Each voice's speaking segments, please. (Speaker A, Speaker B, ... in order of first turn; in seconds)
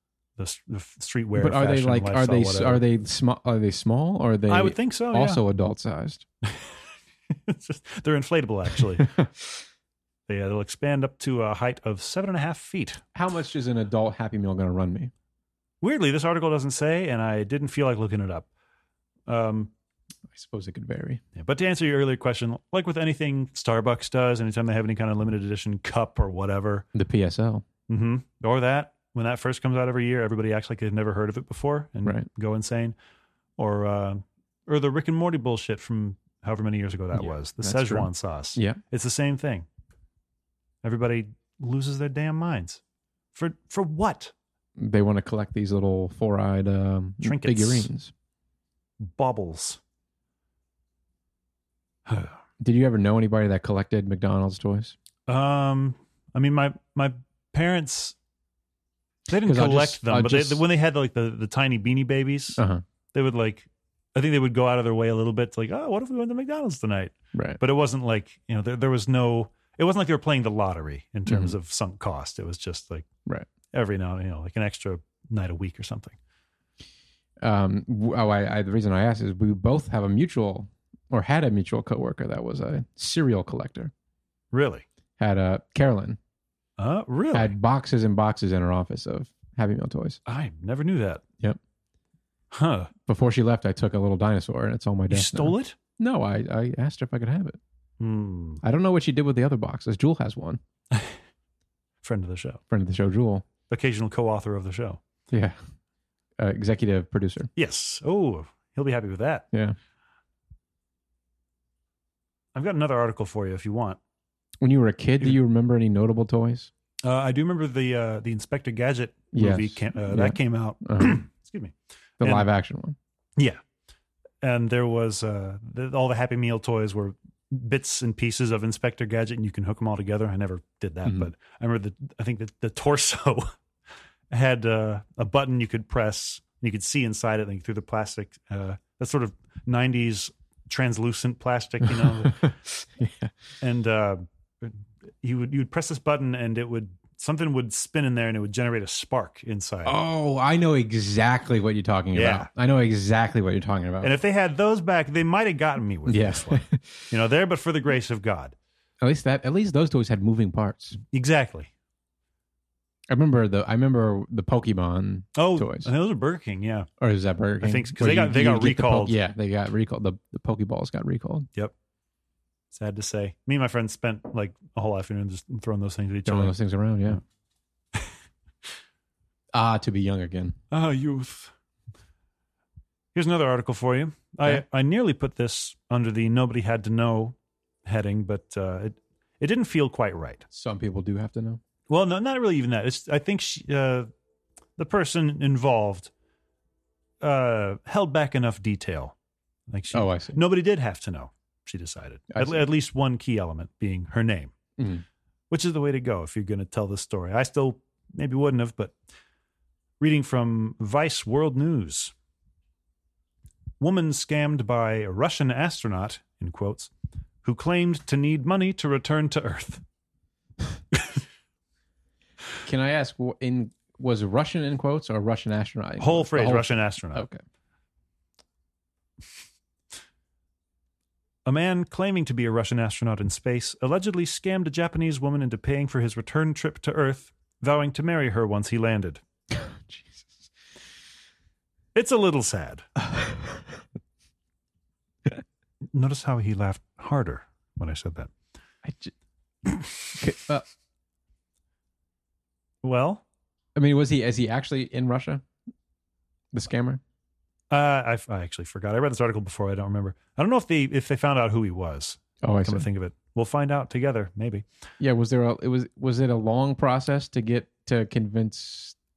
Speaker A: 0.4-2.8, 4.5-5.4, 6.5-6.7, 7.3-9.1, 10.3-13.0, 15.8-18.5, 19.3-19.7, 21.4-26.9, 27.9-33.0, 33.6-39.7, 40.8-42.8, 43.3-44.3, 47.2-47.9, 49.0-49.8, 52.1-52.4, 55.3-58.2, 59.3-62.6, 63.1-73.1, 73.7-76.2, 84.5-84.8, 86.8-87.5, 90.3-91.2, 92.5-92.9, 95.1-95.8, 98.0-98.6, 100.9-101.2, 102.0-102.6, 103.7-105.0, 107.6-109.5, 112.5-114.0, 117.0-122.5, 124.4-133.5, 134.3-142.5, 143.6-150.0, 152.1-152.5, 154.0-158.6, 161.1-161.7, 165.4-166.9, 167.6-169.2, 172.7-176.6, 180.7-181.5, 183.1-190.4, 191.9-194.1, 194.8-196.1, 197.2-199.1, 199.7-204.6, 205.5-208.9, 210.0-212.1, 213.8-216.9, 217.4-219.8, 226.0-227.3, 231.4-239.2, 241.9-242.9, 245.9-248.3, 252.8-253.2, 257.7-264.6
Speaker B: 1.4-6.2, 13.1-15.1, 20.3-21.2, 26.9-27.7, 37.1-38.8, 44.8-48.1, 52.6-55.0, 59.3-60.6, 62.6-62.8, 67.3-67.6, 71.3-71.5, 77.4-83.9, 85.2-86.2, 87.3-90.2, 93.1-97.6, 98.6-100.6, 102.7-103.5, 105.3-105.6, 106.4-107.5, 109.5-109.8, 114.6-116.7, 119.3-121.2, 122.2-123.0, 142.0-143.3, 149.8-154.1, 156.1-157.0, 159.0-161.0, 163.1-165.9, 167.0-171.5, 176.3-177.2, 179.5-180.6, 190.5-191.6, 199.9-200.4, 202.3-202.7, 204.8-205.0, 222.6-227.4, 239.5-240.3, 248.8-249.1, 250.1-250.6, 253.7-255.4, 256.5-257.0, 262.4-262.9, 265.0-268.9